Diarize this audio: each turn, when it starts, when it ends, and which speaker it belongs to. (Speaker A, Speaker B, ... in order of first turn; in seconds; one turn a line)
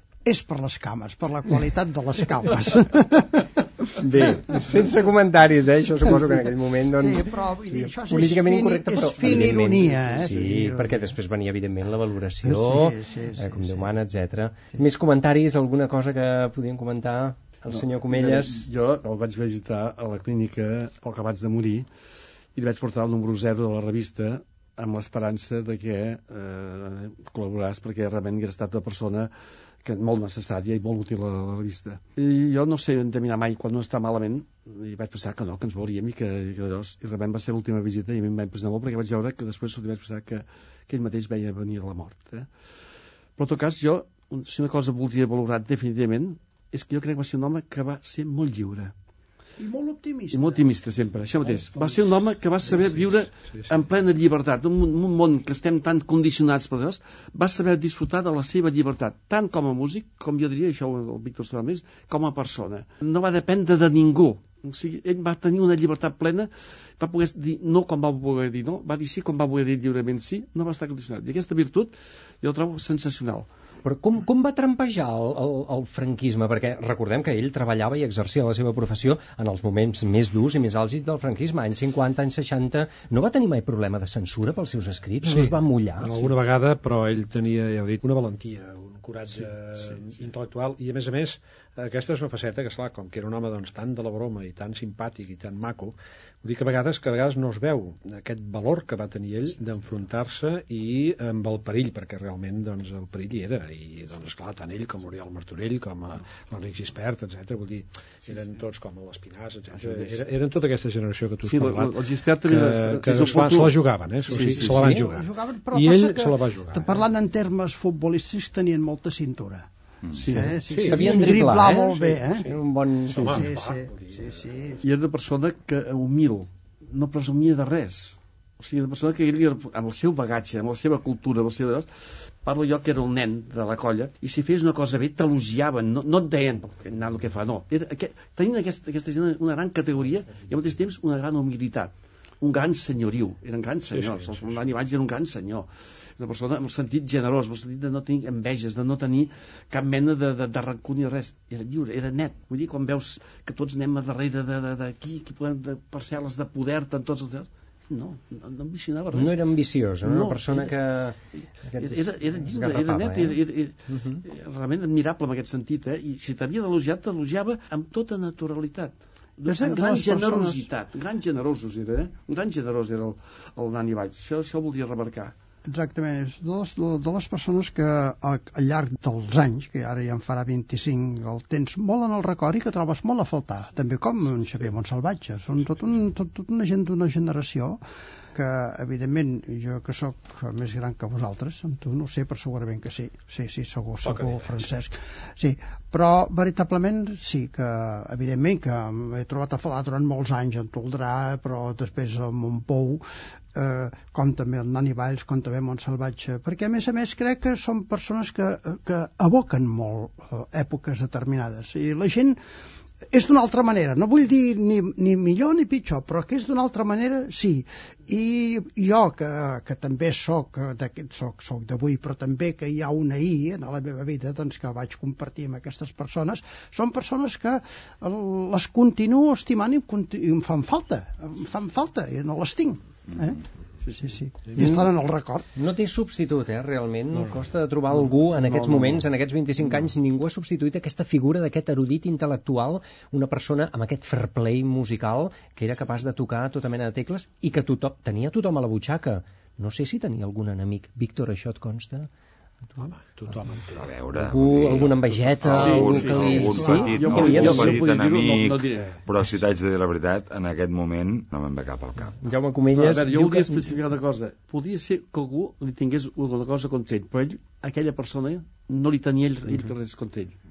Speaker A: 0.2-4.7
Speaker B: 4.0-18.7
Speaker A: 6.1-11.2
Speaker A: 12.4-13.9
Speaker C: 17.7-21.9
Speaker C: 22.6-29.3
Speaker C: 29.9-42.5
Speaker C: 43.4-48.9
Speaker A: 49.6-50.6
Speaker C: 50.3-73.5
Speaker D: 52.7-53.7
Speaker B: 73.8-86.3
Speaker D: 85.2-117.0
Speaker C: 109.7-110.2
Speaker C: 111.4-114.9
Speaker A: 114.3-122.5
Speaker E: 120.0-120.3
Speaker C: 120.2-120.6
Speaker D: 120.6-124.8
Speaker B: 120.8-123.4
Speaker A: 123.2-124.8
Speaker C: 124.8-131.9
Speaker C: 132.4-159.5
Speaker D: 143.9-144.6
Speaker B: 159.1-163.4
Speaker C: 160.0-160.8
Speaker C: 161.8-175.3
Speaker B: 163.9-164.2
Speaker A: 169.5-170.7
Speaker A: 175.7-187.8
Speaker A: 188.3-212.4
Speaker D: 194.1-194.5
Speaker A: 213.1-233.4
Speaker A: 234.0-235.5
Speaker B: 234.6-234.8
Speaker B: 235.6-252.1
Speaker D: 238.5-239.1
Speaker D: 252.8-253.9
Speaker E: 253.7-262.2
Speaker B: 254.2-257.8
Speaker C: 255.5-258.9
Speaker B: 262.2-263.7
Speaker C: 262.8-270.4